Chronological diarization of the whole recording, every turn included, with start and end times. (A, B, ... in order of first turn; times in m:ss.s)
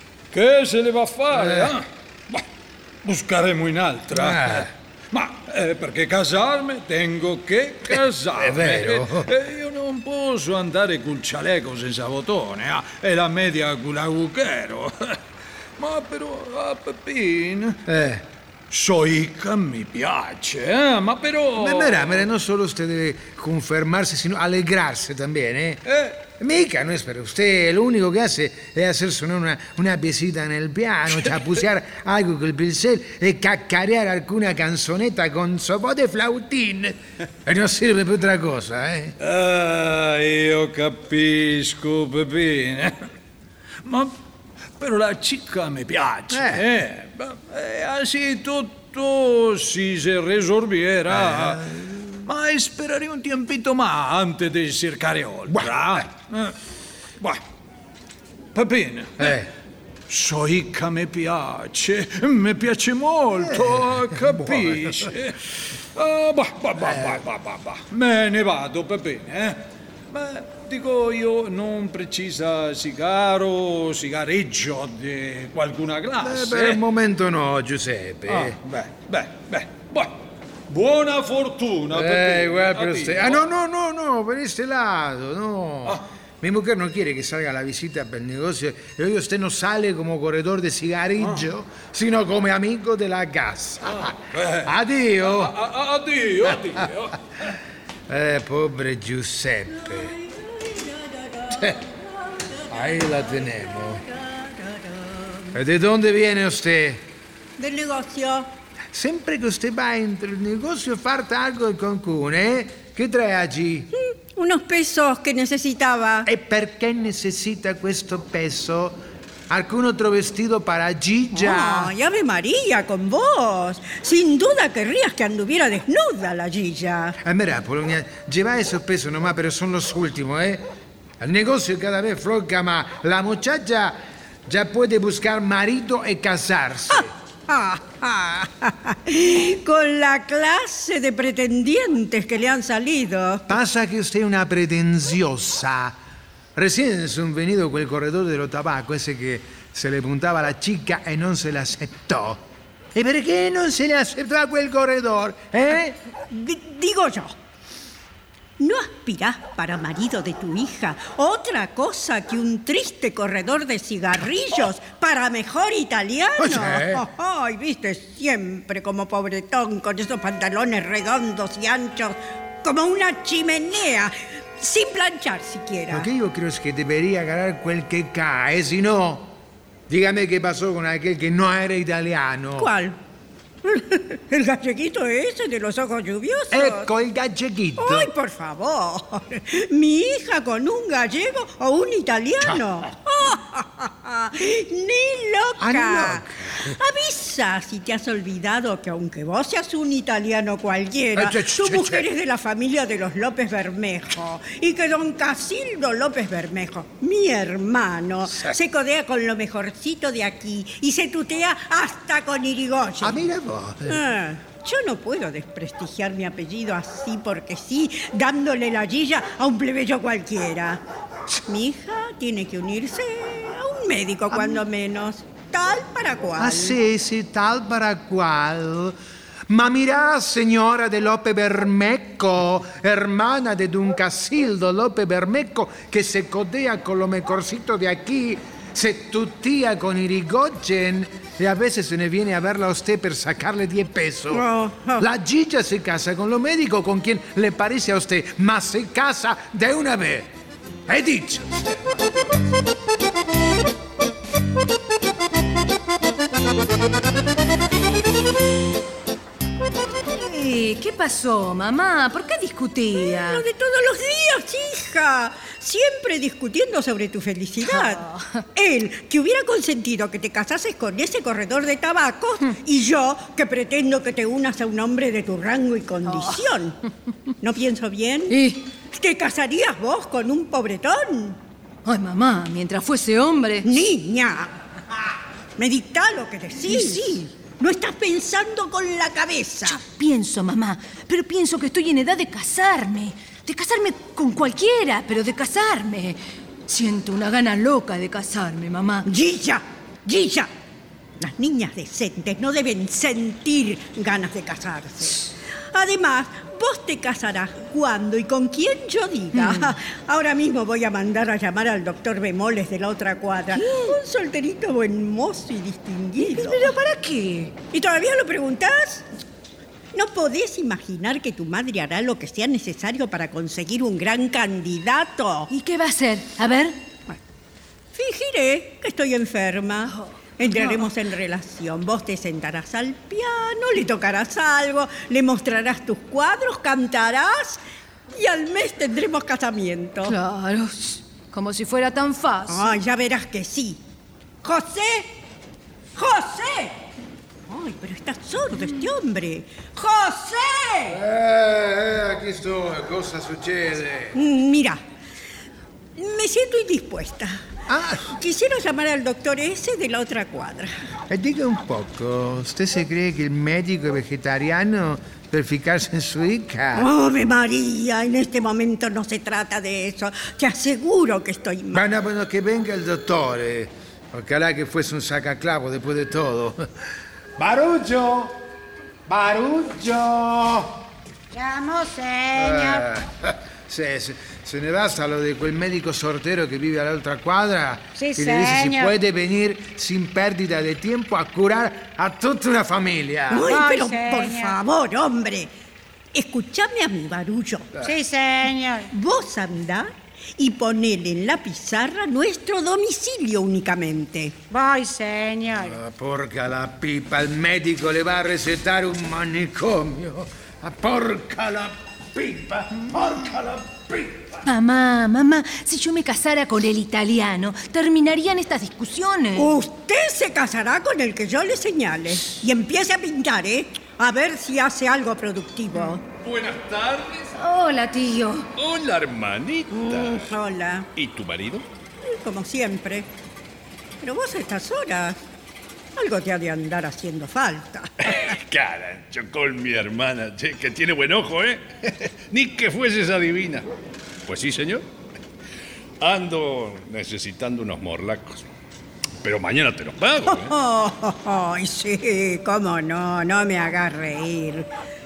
0:00.3-0:02.4 A
0:01.4-0:01.6 B
0:03.0-0:15.2 A
0:04.1-0:04.7 B
0:07.9-0:09.3 B
0:15.8-0:17.8 A
0:17.8-0:18.2 B
0:18.7-0:22.2 A
0:21.6-0:25.8 B
0:25.9-0:26.2 A
0:26.4-0:39.2 B
0:39.2-0:43.1 A
0:43.8-0:44.1 A
0:44.8-0:56.5 A
0:46.3-0:46.6 B
0:51.1-0:51.8 B
0:55.5-0:56.0 B
0:58.5-0:59.4 A
0:59.2-0:59.5 B
1:00.1-1:05.4 A
1:03.7-1:05.1 B
1:05.9-1:09.6 A
1:06.8-1:07.2 B
1:10.1-1:16.8 A
1:16.2-1:18.6 B
1:18.3-1:20.1 A
1:20.7-1:23.4 A
1:21.9-1:35.5 B
1:34.3-1:34.7 A
1:35.2-1:37.1 A
1:36.4-1:37.0 B
1:38.1-1:40.1 B
1:39.8-1:45.5 C
1:42.7-1:44.0 B
1:45.5-1:47.0 B
1:47.6-1:48.5 C
1:48.9-1:53.9 B
1:53.9-1:56.3 C
1:56.2-2:01.9 B
2:01.3-2:07.2 C
2:07.2-2:10.6 B
2:11.2-2:17.1 B
2:16.9-2:23.4 C
2:23.5-2:26.0 B
2:26.5-2:32.4 B
2:32.9-2:36.0 B
2:36.3-2:37.3 C
2:38.6-2:56.1 C
2:46.4-2:47.0 B
2:55.9-2:59.3 B
2:59.9-3:02.7 B
3:02.6-3:03.0 C
3:03.6-3:06.9 C
3:06.5-3:08.1 B
3:07.8-3:33.2 C
3:15.6-3:16.7 B
3:21.2-3:22.1 B
3:28.3-3:28.6 B
3:33.0-3:34.0 B
3:33.9-3:46.8 C
3:46.4-3:49.0 B
3:49.5-4:04.4 B
4:04.3-4:05.0 C
4:05.0-4:10.3 B
4:10.9-4:11.9 B
4:20.1-4:23.4 D
4:23.0-4:28.0 C
4:27.6-4:28.4 D
4:28.5-4:36.8 C
4:36.0-4:36.5 D
4:37.4-4:38.4 C
4:38.3-4:38.6 D
4:38.9-4:41.4 C
4:41.8-4:43.7 D
4:43.6-4:44.5 C
4:45.6-4:49.8 C
4:46.6-4:47.3 D
4:49.6-4:59.0 D
4:59.0-5:00.5 C
5:01.2-5:16.7 C
5:09.3-5:09.7 D
5:13.5-5:14.0 D
5:16.2-5:17.5 D
5:17.7-5:19.0 C
5:19.9-5:25.5 C
5:25.5-5:26.7 D
5:27.9-5:37.6 C
5:30.4-5:30.9 D
5:38.2-5:40.2 C
5:40.0-5:42.8 D
5:42.5-5:43.8 C
5:44.4-5:45.1 C
5:45.9-5:46.8 C
5:47.5-5:51.0 C
5:50.9-5:54.2 B
5:54.1-5:54.8 C
5:56.0-5:57.4 C
5:57.7-5:58.2 B
5:58.1-6:00.7 C
6:01.1-6:06.9 B
6:06.8-6:11.8 C
6:11.7-6:16.7 B
6:17.4-6:18.4 B
6:19.1-6:20.8 B
6:21.3-6:22.9 E
6:22.3-6:33.5 B
6:28.0-6:28.9 E
6:33.3-6:35.5 C
6:33.4-6:34.6 E
6:36.1-6:37.7 C
6:37.8-6:38.9 E
6:38.9-6:44.4 C
6:44.5-6:45.8 E
6:45.6-6:54.4 B
6:54.4-6:59.5 D
6:59.3-7:06.0 C
7:06.2-7:07.3 F
7:07.4-7:08.5 D
7:08.6-7:10.3 F
7:09.7-7:10.9 C
7:10.9-7:11.6 F
7:12.0-7:13.1 C
7:14.0-7:15.2 C
7:16.0-7:18.2 C
7:18.0-7:23.7 F
7:24.2-7:24.8 F
7:26.0-7:28.4 F
7:29.2-7:30.5 F
7:30.2-7:34.7 C